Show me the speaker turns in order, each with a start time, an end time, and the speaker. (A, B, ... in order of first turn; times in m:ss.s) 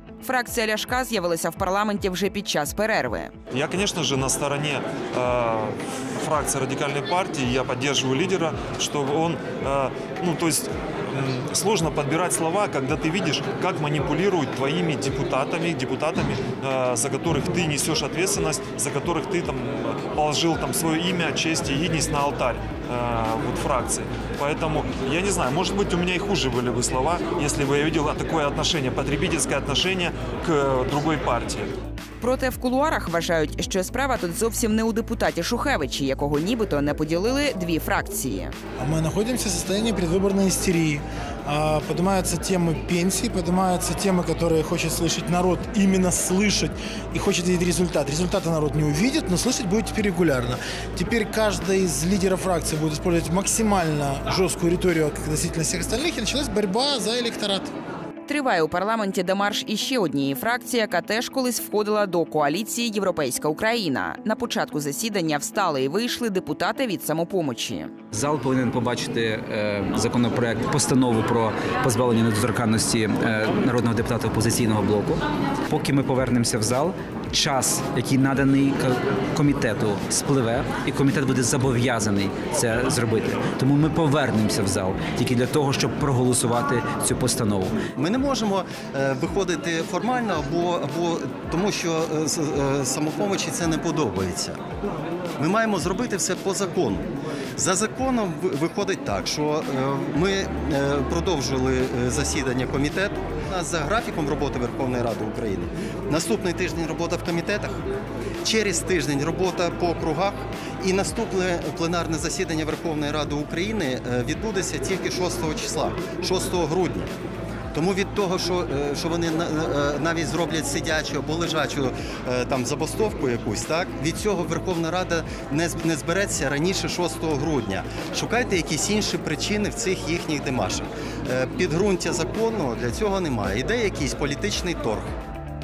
0:00.2-0:03.3 A
0:03.5-0:31.7 B
0:32.2-0:38.5 A
0:38.8-0:57.7 C
0:58.3-1:07.9 A
1:08.1-1:27.8 D
1:28.0-1:34.6 E
1:35.4-1:47.8 E
1:48.4-1:57.1 E
1:57.7-2:15.1 E